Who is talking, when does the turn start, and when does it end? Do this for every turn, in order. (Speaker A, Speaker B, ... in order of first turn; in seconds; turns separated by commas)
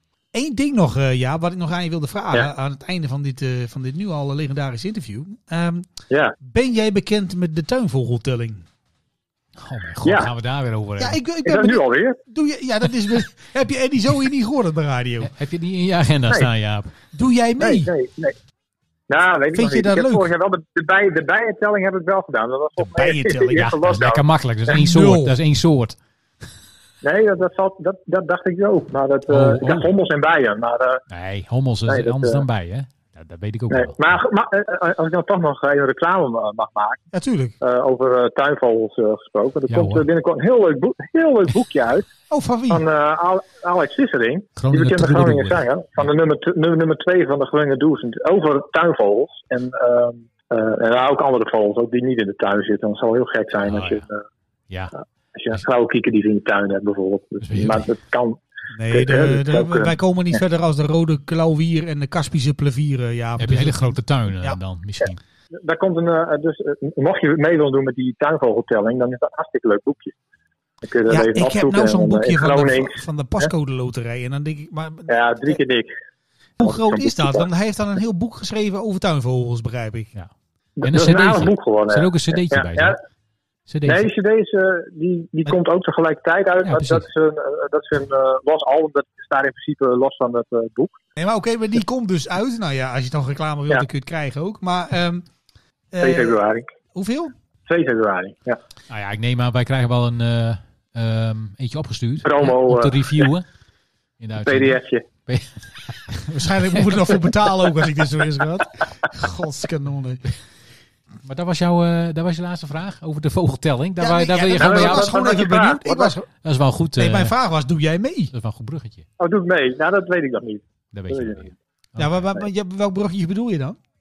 Speaker A: 0.3-5.9, Speaker B: 6.1-6.3, Speaker A: 6.4-8.6, Speaker C: 9.6-11.2, Speaker A: 11.0-15.3, Speaker B: 11.4-12.2, Speaker C: 15.2-16.9, Speaker A: 17.1-17.9, Speaker B: 17.6-18.3, Speaker B: 19.1-24.2, Speaker A: 19.5-20.3, Speaker A: 22.8-23.7, Speaker C: 23.5-26.0, Speaker A: 24.7-25.4, Speaker B: 27.0-31.0, Speaker C: 29.3-29.9, Speaker C: 31.1-34.1, Speaker B: 31.9-32.4, Speaker B: 33.7-37.0, Speaker A: 37.1-37.5, Speaker B: 37.6-42.1, Speaker C: 39.7-40.0, Speaker A: 42.3-42.8, Speaker B: 42.7-54.2, Speaker C: 44.5-46.1, Speaker C: 53.6-54.0, Speaker B: 55.4-59.9, Speaker C: 57.4-57.8, Speaker A: 58.7-64.6, Speaker C: 63.4-65.2, Speaker B: 65.6-70.1, Speaker B: 70.8-73.5, Speaker A: 71.1-75.6, Speaker B: 75.1-75.9, Speaker A: 76.6-80.1, Speaker B: 76.6-77.4, Speaker B: 80.8-83.0, Speaker C: 80.8-83.0, Speaker C: 83.7-84.1, Speaker B: 83.8-91.0, Speaker C: 86.6-87.1, Speaker A: 91.2-95.2, Speaker A: 95.9-96.4, Speaker B: 96.0-96.7, Speaker A: 96.9-97.3, Speaker B: 97.7-98.6, Speaker C: 98.9-103.5, Speaker B: 102.2-103.3, Speaker C: 104.2-106.9, Speaker B: 104.5-105.0, Speaker A: 106.2-110.2, Speaker C: 111.2-115.1, Speaker A: 114.0-116.3, Speaker B: 114.5-116.1, Speaker C: 116.4-117.3, Speaker A: 117.0-118.3, Speaker C: 118.3-119.0, Speaker B: 119.2-121.5, Speaker C: 120.9-122.3, Speaker A: 122.0-123.8